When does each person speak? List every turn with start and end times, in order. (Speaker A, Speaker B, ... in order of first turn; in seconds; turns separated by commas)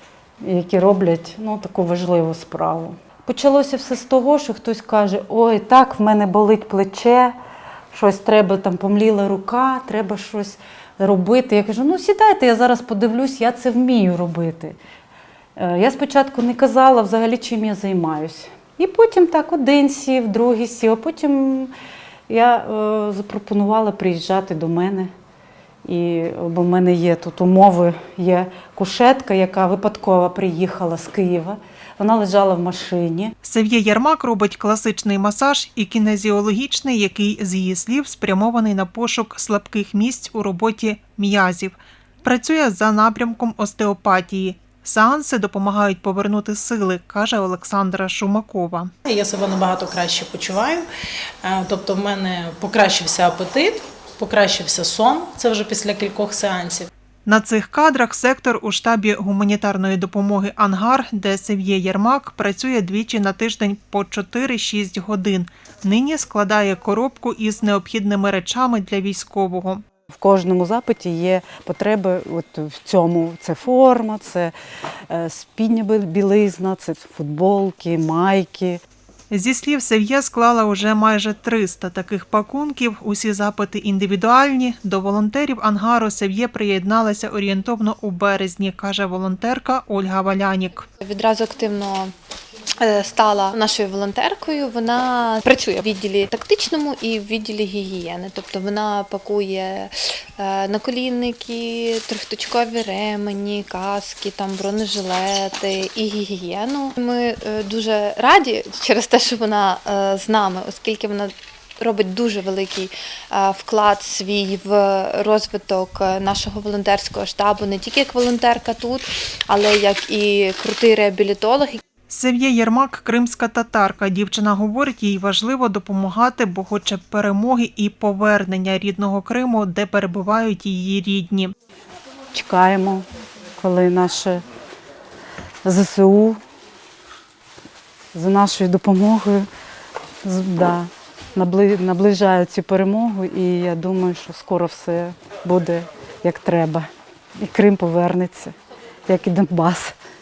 Speaker A: 0.4-7.3, Speaker A: 7.9-14.8, Speaker A: 15.6-21.7, Speaker A: 22.3-25.1, Speaker A: 25.8-33.3, Speaker B: 33.4-48.9, Speaker C: 49.0-50.9, Speaker C: 51.4-56.9, Speaker B: 57.2-69.8, Speaker A: 70.1-74.5, Speaker A: 75.1-78.8, Speaker B: 79.3-90.9, Speaker D: 91.0-92.1, Speaker D: 92.8-121.8, Speaker B: 122.1-131.5, Speaker A: 132.3-133.0, Speaker A: 133.6-134.4, Speaker A: 135.6-136.4, Speaker A: 138.1-139.5, Speaker A: 140.2-146.9, Speaker A: 147.4-148.5, Speaker A: 149.1-149.9